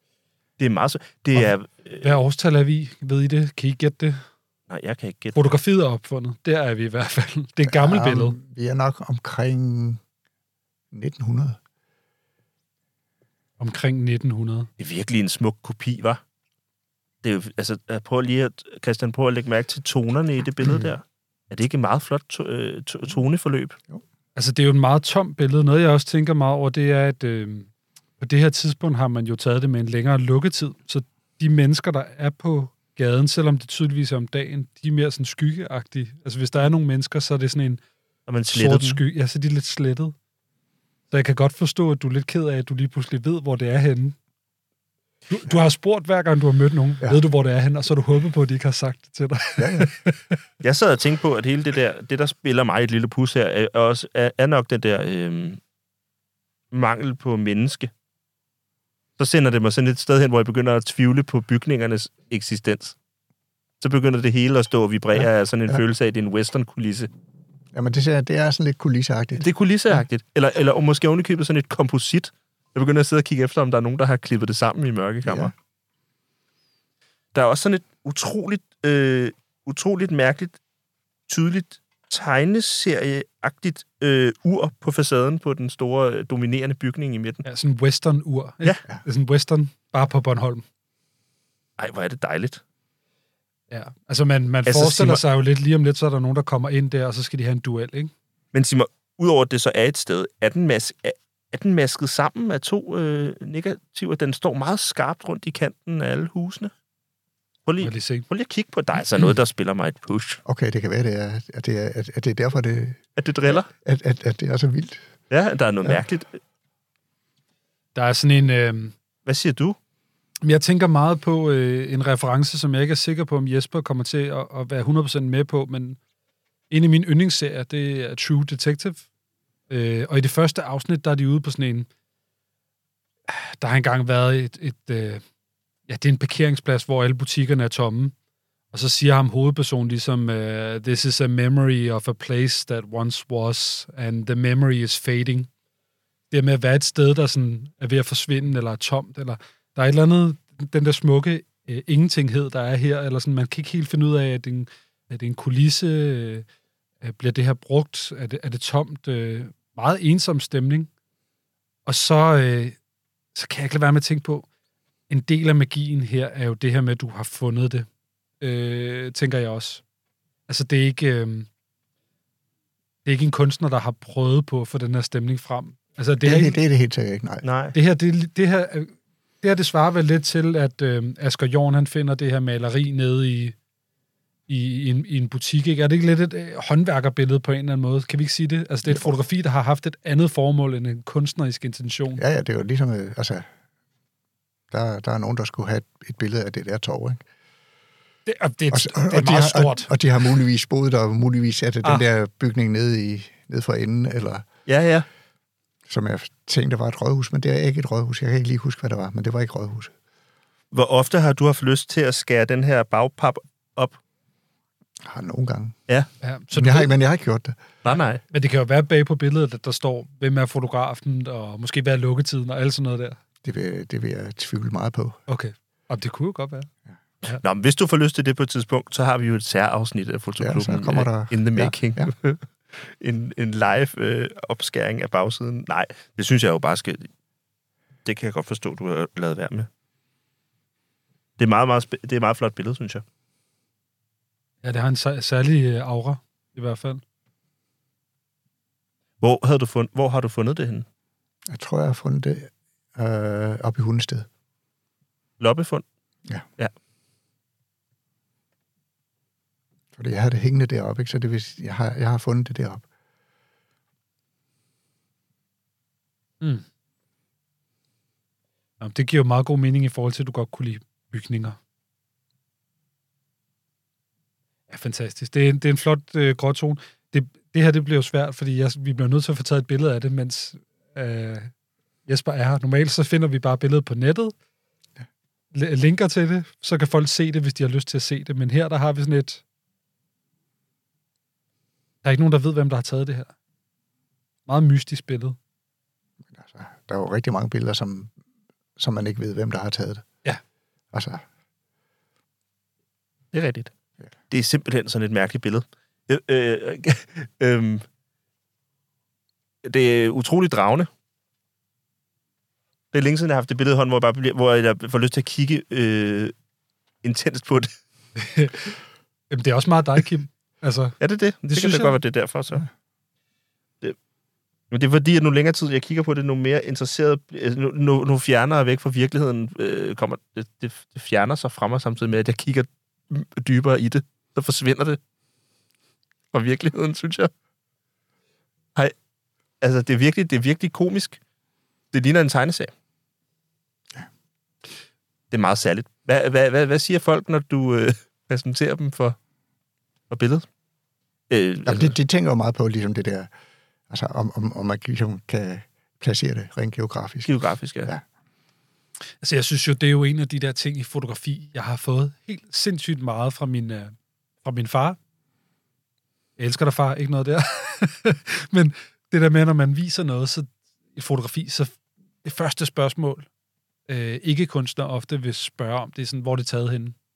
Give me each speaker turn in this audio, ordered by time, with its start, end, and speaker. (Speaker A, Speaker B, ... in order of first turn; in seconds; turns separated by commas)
Speaker A: 0.6-2.1, Speaker B: 2.0-4.2, Speaker A: 4.7-5.5, Speaker B: 5.3-8.4, Speaker C: 7.7-10.0, Speaker C: 10.9-11.6, Speaker B: 13.6-14.7, Speaker A: 14.8-16.2, Speaker A: 17.2-23.8, Speaker B: 24.4-37.8, Speaker A: 38.3-39.0, Speaker B: 38.5-40.1, Speaker B: 41.1-44.2, Speaker B: 45.3-50.4, Speaker C: 49.6-49.9, Speaker A: 50.6-55.6, Speaker A: 56.7-57.9, Speaker A: 59.2-63.0, Speaker A: 63.8-67.1, Speaker C: 65.2-65.8, Speaker C: 67.7-70.0, Speaker A: 69.4-75.5, Speaker C: 75.2-75.5, Speaker A: 77.3-80.6, Speaker A: 81.3-87.5, Speaker B: 87.5-90.7, Speaker A: 91.8-92.6, Speaker B: 93.7-98.1, Speaker A: 94.7-95.2, Speaker A: 98.5-106.7, Speaker A: 107.7-110.4, Speaker B: 107.8-108.3, Speaker C: 110.5-115.0, Speaker A: 113.2-113.7, Speaker A: 115.3-116.4, Speaker B: 118.0-118.9, Speaker A: 119.3-119.8, Speaker B: 120.4-126.0, Speaker B: 126.7-129.0, Speaker B: 129.7-131.9, Speaker B: 133.3-135.2, Speaker B: 135.9-138.1, Speaker B: 138.7-145.5, Speaker B: 146.3-156.5, Speaker B: 157.0-160.9, Speaker B: 161.9-162.8, Speaker B: 163.3-164.5, Speaker B: 165.1-167.9, Speaker B: 168.4-169.8, Speaker B: 170.5-171.5, Speaker B: 173.1-176.6, Speaker C: 176.2-177.4, Speaker A: 177.4-177.8, Speaker B: 177.7-183.6, Speaker B: 184.5-192.2, Speaker C: 192.2-193.5, Speaker C: 194.7-197.2, Speaker B: 198.3-199.9, Speaker C: 198.7-204.4, Speaker A: 204.7-205.1, Speaker C: 205.9-209.9, Speaker A: 210.7-214.0, Speaker C: 215.0-215.8, Speaker B: 216.2-216.9, Speaker C: 216.5-217.6, Speaker A: 217.8-218.2, Speaker B: 218.3-223.2, Speaker C: 223.4-225.2, Speaker B: 225.3-226.7, Speaker A: 227.4-237.1, Speaker C: 230.4-232.1, Speaker A: 238.1-239.7, Speaker A: 241.4-243.0, Speaker B: 244.6-247.0, Speaker A: 249.2-250.9, Speaker C: 251.5-254.3, Speaker A: 255.4-255.8, Speaker C: 259.9-262.9, Speaker B: 268.8-271.6, Speaker B: 274.7-281.5, Speaker B: 282.1-284.3, Speaker B: 285.5-289.4, Speaker B: 292.0-293.3, Speaker B: 294.5-295.4, Speaker C: 296.3-298.1, Speaker C: 298.8-300.1, Speaker C: 300.9-301.2, Speaker A: 303.3-303.7, Speaker A: 304.3-307.9, Speaker A: 309.6-310.9, Speaker A: 312.9-316.3, Speaker A: 317.0-317.7, Speaker B: 318.2-318.7, Speaker B: 319.3-321.0, Speaker A: 321.0-322.7, Speaker B: 321.5-322.0, Speaker A: 324.7-335.0, Speaker A: 336.3-337.3, Speaker A: 339.6-341.2, Speaker A: 341.9-342.7, Speaker A: 345.3-349.2, Speaker A: 350.1-350.4, Speaker A: 351.3-351.9, Speaker C: 351.7-353.3, Speaker C: 353.9-357.3, Speaker A: 357.2-357.9, Speaker B: 359.2-365.0, Speaker B: 366.4-373.3, Speaker B: 373.9-376.9